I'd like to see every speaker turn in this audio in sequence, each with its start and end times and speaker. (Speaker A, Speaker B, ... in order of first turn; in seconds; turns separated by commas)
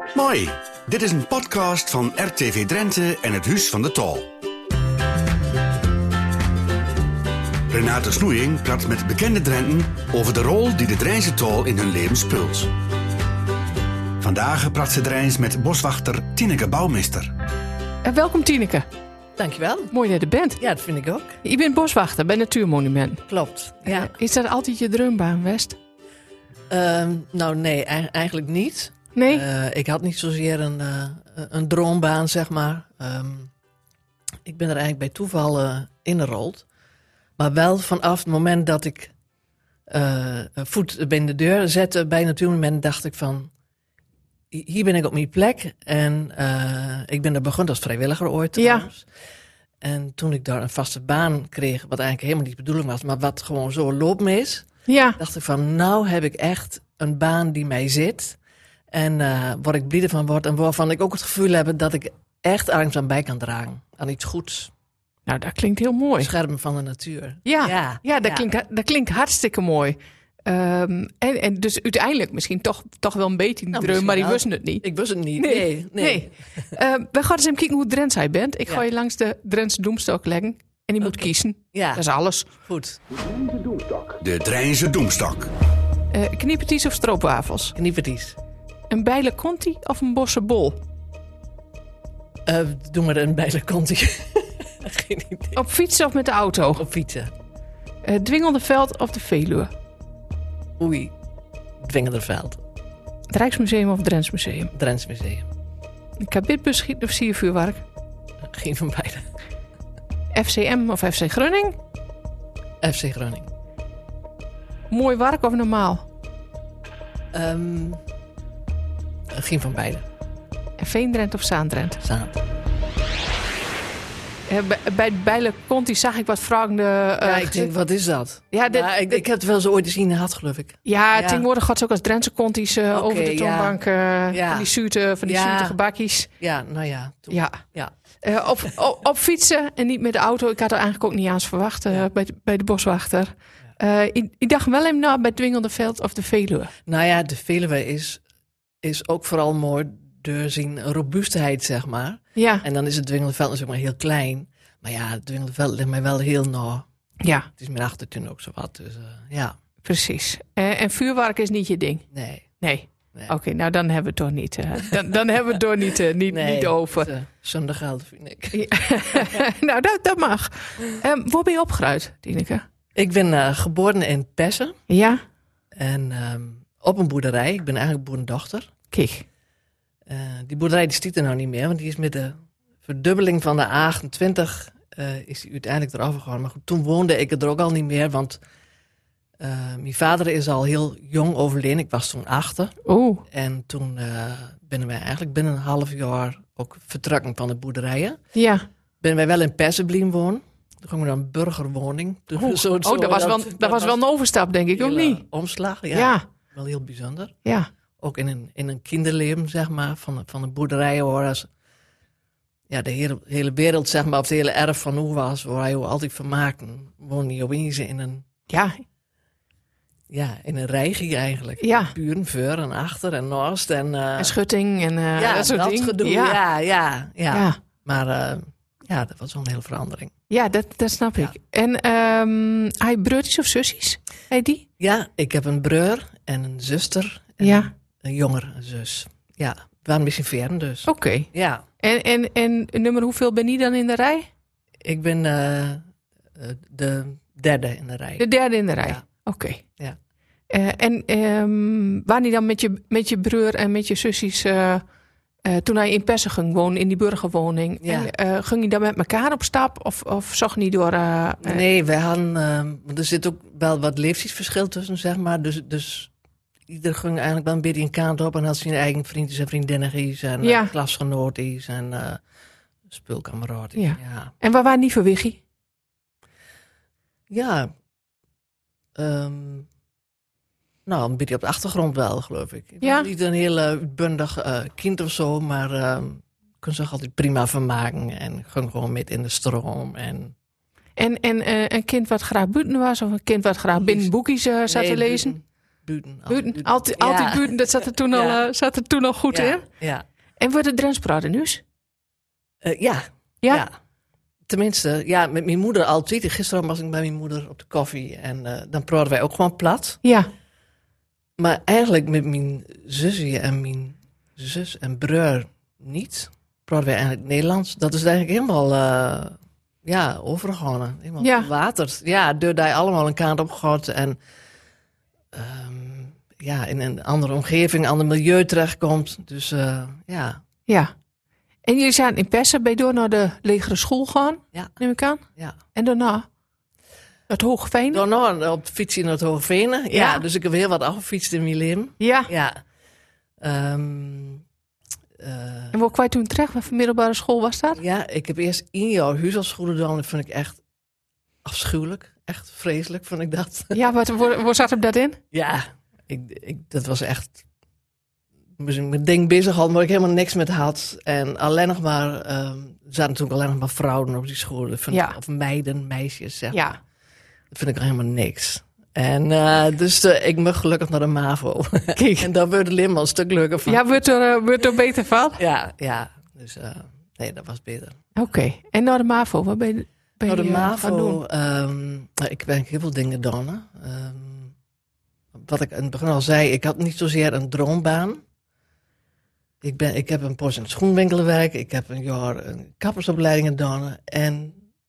Speaker A: 0.1-4.3, Speaker A: 7.7-12.7, Speaker A: 14.2-17.3, Speaker B: 18.0-18.9, Speaker C: 19.4-19.9, Speaker B: 19.9-20.6, Speaker C: 20.6-21.4, Speaker B: 21.4-23.2, Speaker C: 23.3-24.1, Speaker B: 23.9-25.8, Speaker C: 26.7-33.5, Speaker B: 29.1-29.4, Speaker C: 34.5-36.6, Speaker C: 37.4-39.1, Speaker C: 39.9-43.5, Speaker C: 44.5-49.0, Speaker B: 48.6-48.9, Speaker C: 49.8-58.4, Speaker B: 54.9-55.2, Speaker C: 58.9-64.7, Speaker B: 65.3-66.3, Speaker C: 66.2-68.4, Speaker B: 67.4-74.8, Speaker C: 73.7-76.3, Speaker B: 75.4-82.5, Speaker C: 81.0-82.0, Speaker C: 82.6-83.0, Speaker A: 83.2-85.5, Speaker B: 86.1-87.7, Speaker C: 87.7-88.4, Speaker B: 88.9-90.8, Speaker C: 92.5-95.6, Speaker B: 95.5-96.8, Speaker C: 96.8-97.3, Speaker B: 98.0-99.7, Speaker C: 100.8-101.1, Speaker C: 101.8-102.6, Speaker B: 103.3-104.7, Speaker C: 104.7-105.5, Speaker B: 106.2-107.8, Speaker C: 108.5-109.2, Speaker B: 110.3-111.8, Speaker C: 112.8-113.5, Speaker B: 114.9-116.0, Speaker C: 117.3-118.0, Speaker C: 119.3-120.0, Speaker B: 120.8-122.0, Speaker C: 122.0-122.4, Speaker B: 124.5-127.7, Speaker C: 127.2-131.4, Speaker B: 128.5-129.2, Speaker B: 130.8-136.3, Speaker C: 132.9-133.8, Speaker C: 134.3-134.7, Speaker C: 135.2-135.8, Speaker C: 136.4-137.9, Speaker B: 137.3-137.6, Speaker B: 138.2-146.7, Speaker C: 146.8-148.2, Speaker C: 148.8-156.8, Speaker B: 152.3-152.6, Speaker B: 157.2-157.5, Speaker C: 157.6-159.6, Speaker B: 159.8-162.1, Speaker C: 162.1-162.5, Speaker B: 162.6-167.1, Speaker C: 166.3-169.4, Speaker B: 168.5-172.6, Speaker C: 172.9-174.8, Speaker B: 174.9-175.2, Speaker C: 175.8-178.7, Speaker B: 178.9-179.2, Speaker C: 180.1-188.4, Speaker C: 189.4-192.7, Speaker B: 192.8-193.2, Speaker C: 193.3-198.2, Speaker B: 198.3-198.7, Speaker C: 199.0-204.0, Speaker B: 202.4-205.2, Speaker C: 204.7-207.3, Speaker B: 205.9-206.2, Speaker C: 208.0-211.5, Speaker C: 212.7-218.2, Speaker B: 218.5-218.8, Speaker C: 220.1-224.3, Speaker B: 221.6-221.9, Speaker B: 224.2-226.4, Speaker C: 225.2-230.1, Speaker B: 230.3-234.6, Speaker C: 234.8-241.6, Speaker B: 237.4-237.7, Speaker B: 240.9-241.3, Speaker B: 241.8-244.3, Speaker C: 244.8-245.8, Speaker C: 246.3-248.2, Speaker B: 248.2-249.6, Speaker B: 250.5-254.8, Speaker B: 255.4-261.6, Speaker C: 257.8-258.1, Speaker C: 261.4-266.1, Speaker C: 266.7-272.2, Speaker B: 270.4-270.7, Speaker C: 272.9-274.3, Speaker B: 273.8-275.4, Speaker C: 277.3-277.7, Speaker C: 278.9-279.7, Speaker C: 280.9-290.3, Speaker B: 282.8-283.1, Speaker B: 291.0-295.3, Speaker C: 293.7-294.1, Speaker C: 294.7-297.6, Speaker B: 296.3-299.6, Speaker C: 298.1-298.4, Speaker C: 299.3-300.0, Speaker B: 300.4-301.6, Speaker C: 302.6-303.7, Speaker C: 304.5-310.0, Speaker B: 310.0-310.3, Speaker C: 311.4-324.2, Speaker B: 321.2-321.5, Speaker C: 325.3-330.4, Speaker B: 331.6-335.2, Speaker B: 335.7-336.2, Speaker B: 337.3-338.0, Speaker C: 337.9-342.6, Speaker B: 339.9-340.2, Speaker B: 342.0-342.3, Speaker C: 343.4-344.4, Speaker C: 345.2-345.8, Speaker B: 345.7-347.8, Speaker C: 347.7-350.6, Speaker C: 351.4-353.8, Speaker B: 353.7-355.2, Speaker C: 355.3-357.4, Speaker C: 358.6-366.8, Speaker B: 364.9-365.2, Speaker B: 366.5-366.8, Speaker C: 367.5-373.8, Speaker B: 371.9-372.3, Speaker B: 373.6-375.4, Speaker C: 375.4-378.0, Speaker B: 378.1-381.2, Speaker C: 380.2-384.5, Speaker C: 385.3-388.2, Speaker C: 389.6-394.6